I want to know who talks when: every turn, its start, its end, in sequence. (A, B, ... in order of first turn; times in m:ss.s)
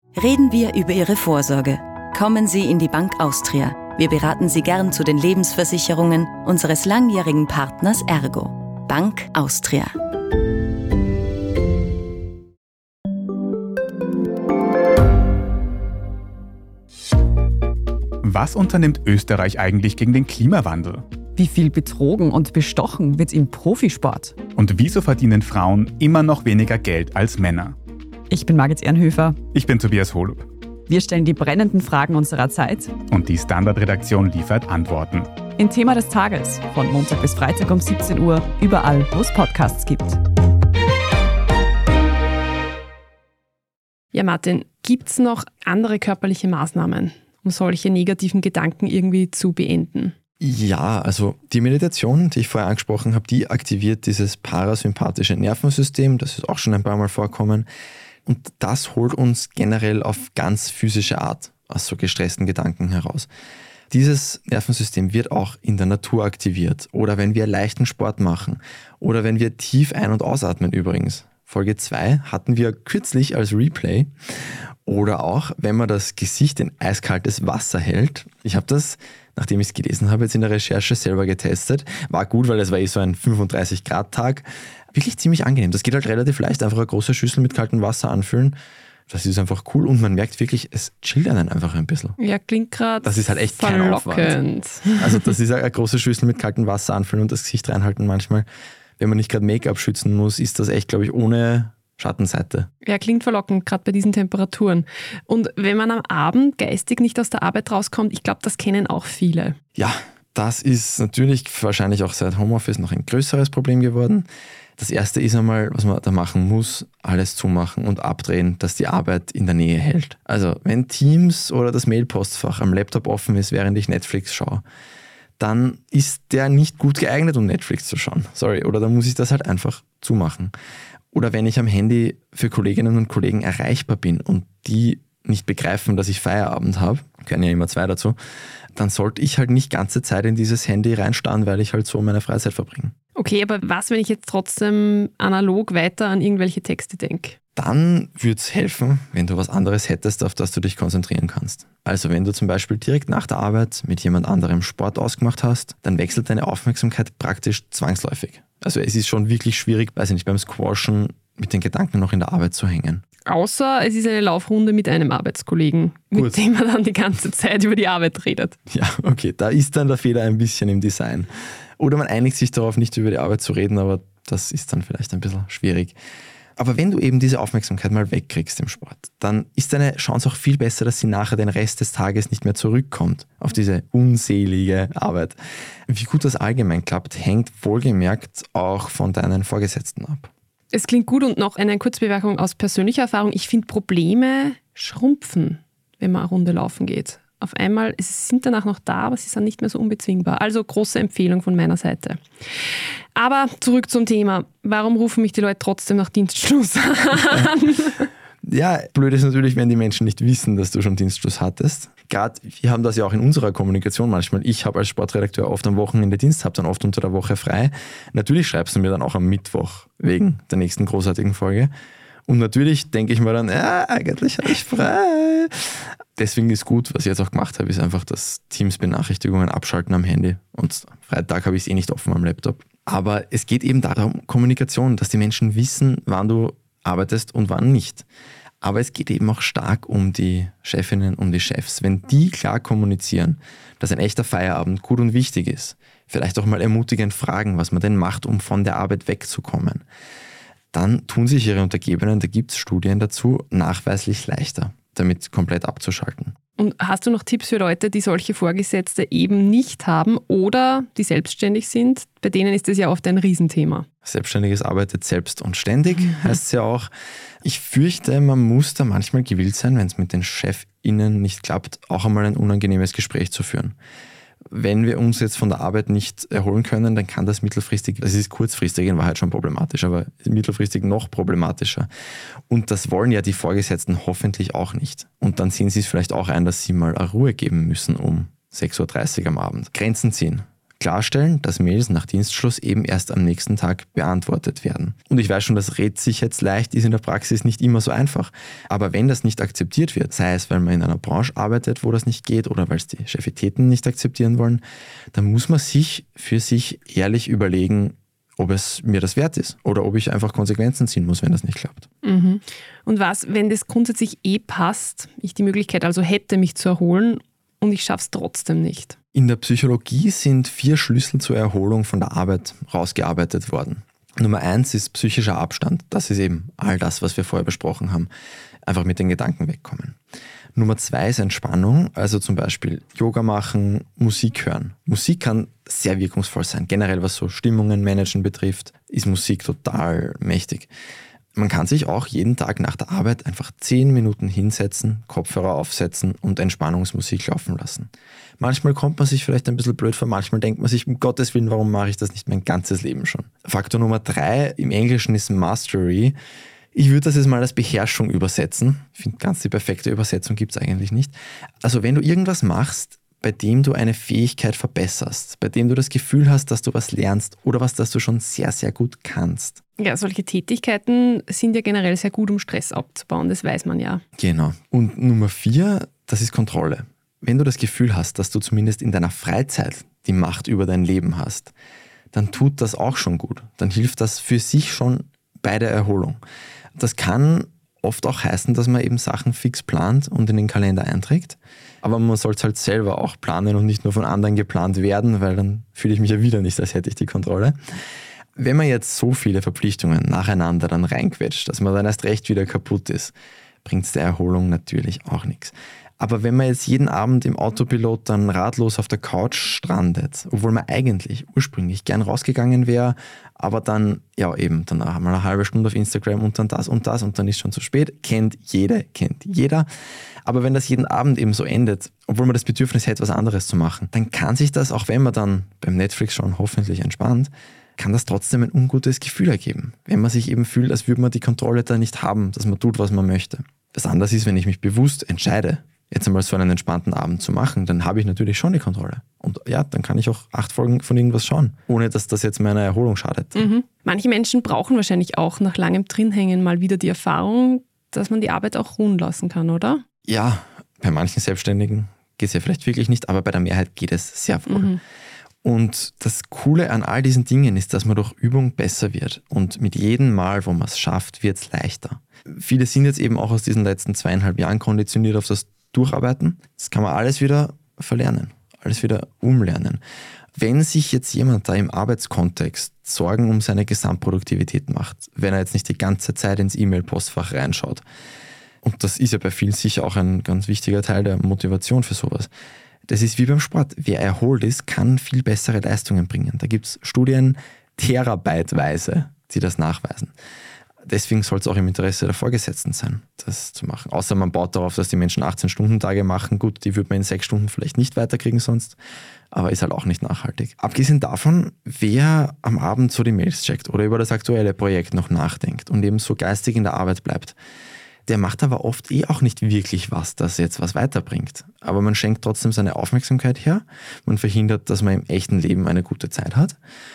0:00.2-0:09.9 A
0:18.2-0:21.1 B
0:21.4-0:24.4 C
0:24.5-0:27.8 B
0:28.3-0:29.4 C
0:29.5-0:30.5 B
0:30.9-0:32.9 C
0:33.1-0:35.3 B
0:35.6-0:40.2 C
0:44.1-0:50.1 D
0:50.4-0:57.7 E
0:58.2-1:03.3 E
1:03.9-1:28.6 E
1:29.1-1:32.2 E
1:32.2-1:35.3 D
1:33.0-1:34.4 E
1:34.9-1:38.4 E
1:39.0-1:42.7 E
1:42.8-1:49.6 D
1:49.8-1:54.2 E
1:54.8-2:04.6 E
2:05.4-2:10.5 E
2:11.1-2:18.2 E
2:18.7-2:22.9 E
2:23.2-2:27.4 D
2:27.6-2:43.0 E
2:43.2-2:48.6 D
2:48.7-2:56.0 E
2:56.6-3:10.3 E
3:10.7-3:28.1 D
3:28.4-3:41.7 E
3:42.3-3:58.0 E
3:58.6-4:09.8 E
4:10.7-4:16.3 E
4:16.6-4:23.9 D
4:24.0-4:26.9 E
4:27.4-4:33.8 E
4:34.5-4:41.9 E
4:42.5-5:04.6 E
5:05.1-5:11.9 E
5:12.0-5:18.9 D
5:19.1-5:28.1 E
5:28.6-5:30.0 E
5:30.6-5:40.7 E
5:41.4-5:56.1 E
5:56.7-6:09.6 E
6:09.8-6:14.0 D
6:14.2-6:21.5 E
6:22.1-6:26.2 E
6:26.8-6:37.6 E
6:38.4-6:43.1 E
6:43.6-6:59.7 E
7:00.2-7:23.5 E
7:23.4-7:29.8 D
7:30.0-7:34.7 E
7:34.5-7:34.8 D
7:35.4-7:49.8 E
7:50.4-7:57.8 E
7:58.6-8:02.3 E
8:02.9-8:10.1 E
8:10.8-8:18.8 E
8:19.3-8:27.4 E
8:28.0-8:36.6 E